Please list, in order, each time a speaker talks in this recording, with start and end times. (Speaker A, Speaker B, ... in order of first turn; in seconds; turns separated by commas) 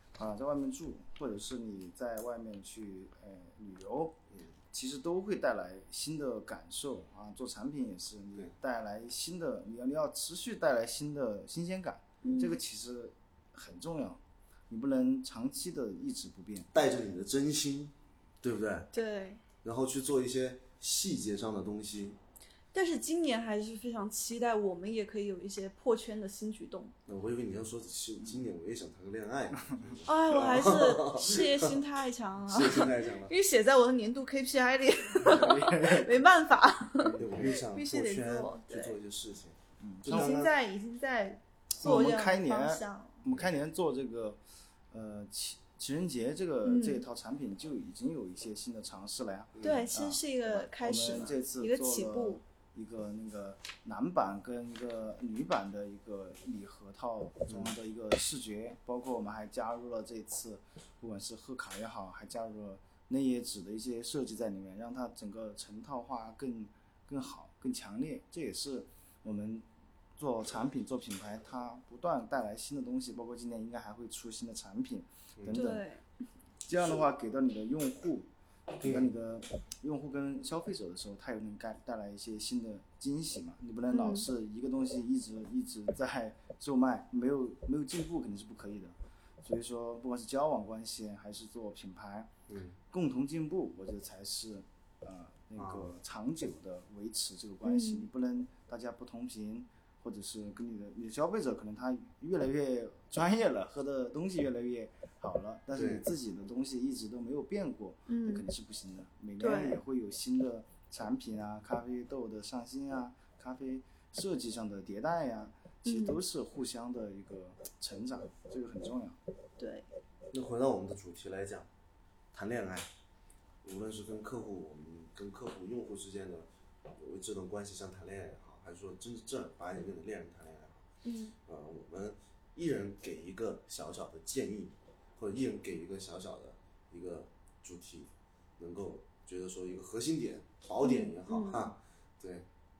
Speaker A: 0.1-4.2, Speaker A: 4.7-14.2, Speaker B: 12.2-12.6, Speaker A: 14.7-16.7, Speaker C: 16.7-18.9, Speaker B: 18.9-19.4, Speaker C: 19.6-22.2, Speaker B: 22.7-26.9, Speaker C: 27.1-31.8, Speaker B: 30.1-39.0, Speaker C: 32.5-33.3, Speaker A: 35.2-36.3, Speaker A: 37.0-37.6, Speaker C: 37.1-40.5, Speaker A: 39.8-40.3, Speaker B: 40.1-43.2, Speaker A: 41.8-44.4, Speaker A: 44.9-69.7, Speaker B: 46.6-47.0, Speaker C: 49.6-49.9, Speaker B: 49.6-52.4, Speaker C: 57.5-57.7, Speaker A: 70.2-75.8, Speaker B: 75.5-76.0, Speaker A: 76.7-92.3, Speaker C: 78.8-79.1, Speaker B: 83.9-84.3, Speaker C: 92.5-92.8, Speaker A: 92.9-119.2, Speaker C: 95.6-95.9, Speaker B: 97.6-98.1, Speaker C: 105.7-106.0, Speaker B: 108.1-108.4, Speaker B: 109.4-109.8, Speaker B: 115.8-116.2, Speaker B: 119.6-119.9, Speaker C: 120.3-121.7, Speaker C: 122.3-122.9, Speaker C: 123.6-130.8, Speaker B: 131.0-131.3, Speaker C: 131.5-142.5, Speaker B: 140.8-141.7